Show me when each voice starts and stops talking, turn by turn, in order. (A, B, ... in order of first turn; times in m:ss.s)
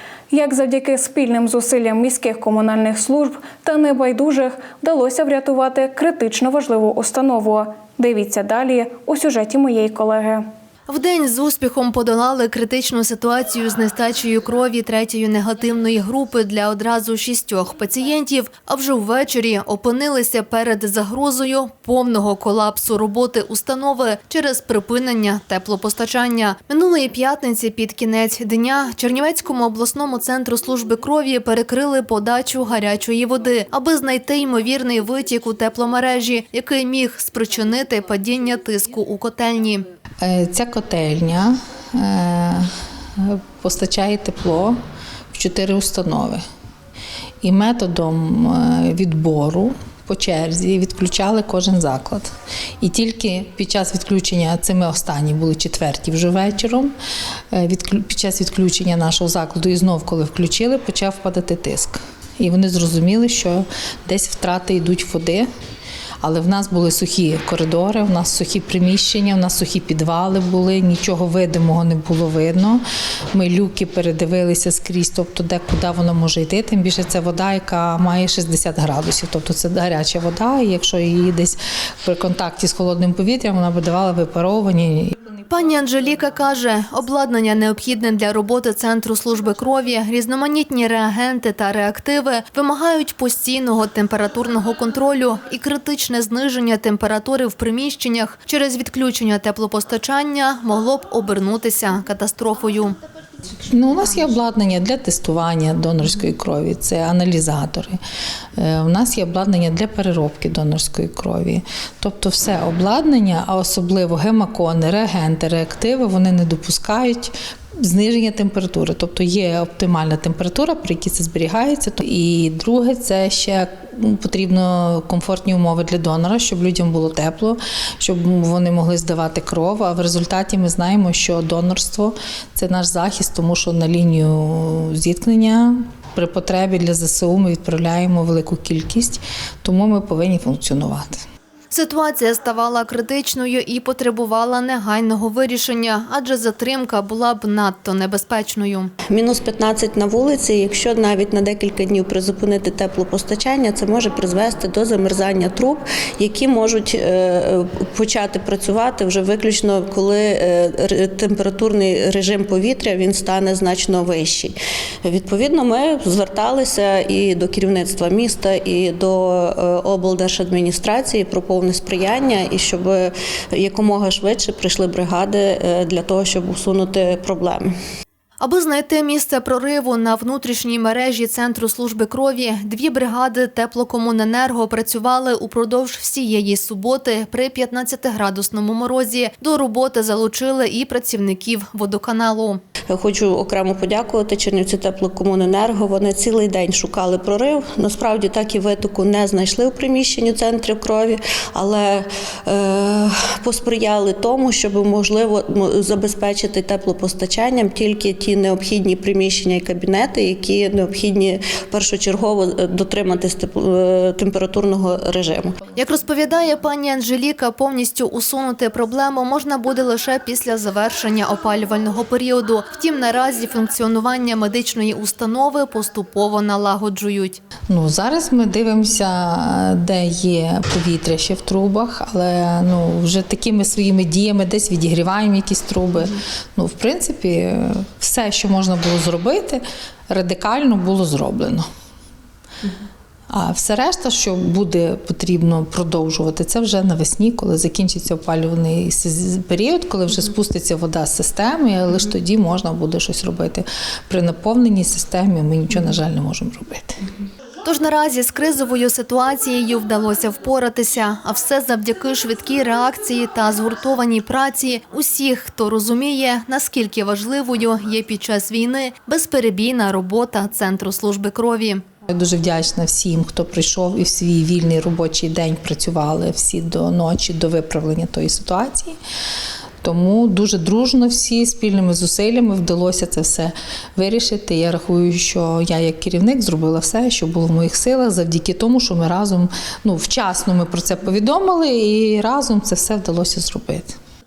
0:00.3-0:10.4 A
0:10.9-0:39.9 B
0:40.2-0:44.8 C
0:45.3-0:46.4 C
0:47.4-0:56.9 C
0:57.5-1:05.5 C
1:06.2-1:25.3 C
1:25.5-1:43.0 B
1:43.6-1:48.0 C
1:48.6-2:21.2 C
2:21.7-2:28.9 B
2:29.1-2:57.7 D
2:58.4-3:12.6 B
3:12.9-3:35.6 D
3:35.8-3:47.4 B
3:47.7-4:01.7 C
4:03.3-4:17.0 C
4:17.6-4:31.8 B
4:32.1-4:39.0 C
4:39.8-4:54.0 C